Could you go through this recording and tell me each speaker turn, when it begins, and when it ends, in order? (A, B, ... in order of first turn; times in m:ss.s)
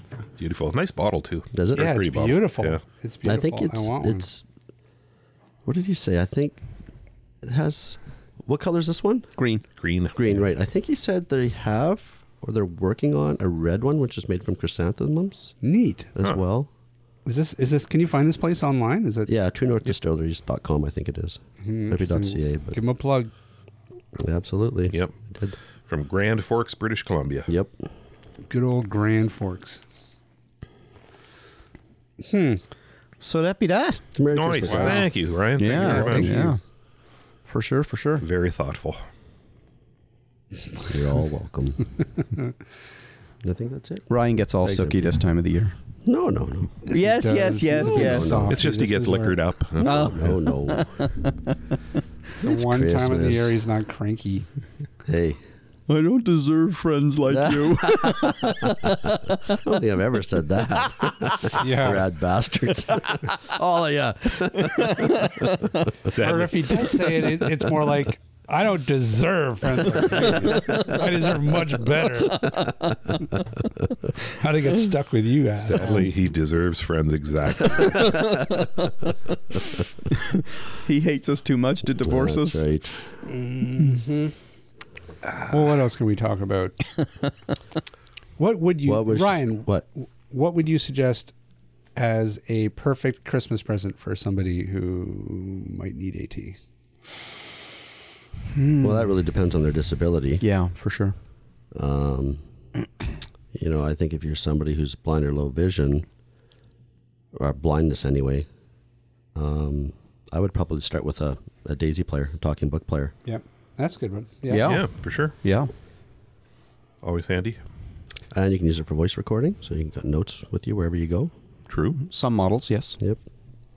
0:00.4-0:02.8 A
0:01.5-0:02.1 B
0:01.7-0:04.2 C
0:03.2-0:04.4 B
0:05.6-0:06.6 B
0:07.4-0:09.3 B
0:09.4-0:09.6 D
0:09.8-0:10.3 A
0:10.1-0:15.5 B
0:15.6-0:16.1 C
0:16.1-0:16.7 B
0:17.2-0:19.3 C
0:19.3-0:22.8 B
0:21.6-0:23.3 C
0:24.2-0:25.5 B
0:25.9-0:27.5 A
0:27.5-0:27.7 B
0:28.5-0:29.8 C
0:32.2-0:32.6 C
0:33.2-0:34.1 D
0:34.1-0:35.0 B
0:34.3-0:36.5 A
0:34.7-0:35.0 C
0:35.6-0:36.6 D
0:35.8-0:36.5 C
0:37.5-0:38.2 D
0:38.2-0:39.0 A
0:40.8-0:41.9 B
0:43.4-0:44.1 B
0:44.1-0:45.7 D
0:44.6-0:45.1 B
0:46.0-0:46.8 B
0:46.8-0:49.4 C
0:46.9-0:48.4 D
0:47.8-0:48.7 B
0:48.5-0:50.1 A
0:49.8-0:50.9 B
0:49.8-0:51.3 D
0:52.4-0:54.4 C
0:52.4-0:53.5 B
0:55.0-0:55.4 B
0:55.9-0:59.4 D
0:57.3-0:58.9 B
0:59.5-1:05.3 B
1:01.6-1:02.1 C
1:04.6-1:05.6 D
1:06.0-1:06.8 A
1:06.1-1:12.7 C
1:14.4-1:16.1 C
1:15.6-1:18.4 A
1:18.2-1:18.6 D
1:20.8-1:22.6 D
1:22.0-1:23.1 B
1:23.2-1:24.3 C
1:25.5-1:26.8 C
1:28.4-1:31.3 C
1:28.8-1:29.8 B
1:32.0-1:36.6 C
1:38.5-1:39.0 D
1:38.8-1:40.4 B
1:40.4-1:41.2 D
1:41.7-1:42.4 B
1:43.5-1:46.0 B
1:47.3-1:48.5 B
1:49.3-1:53.1 B
1:53.2-1:54.7 C
1:54.5-1:54.8 D
1:54.6-1:55.4 A
1:55.4-1:55.7 D
1:57.0-1:57.6 A
1:58.3-2:01.3 B
2:01.7-2:02.0 A
2:02.0-2:03.0 D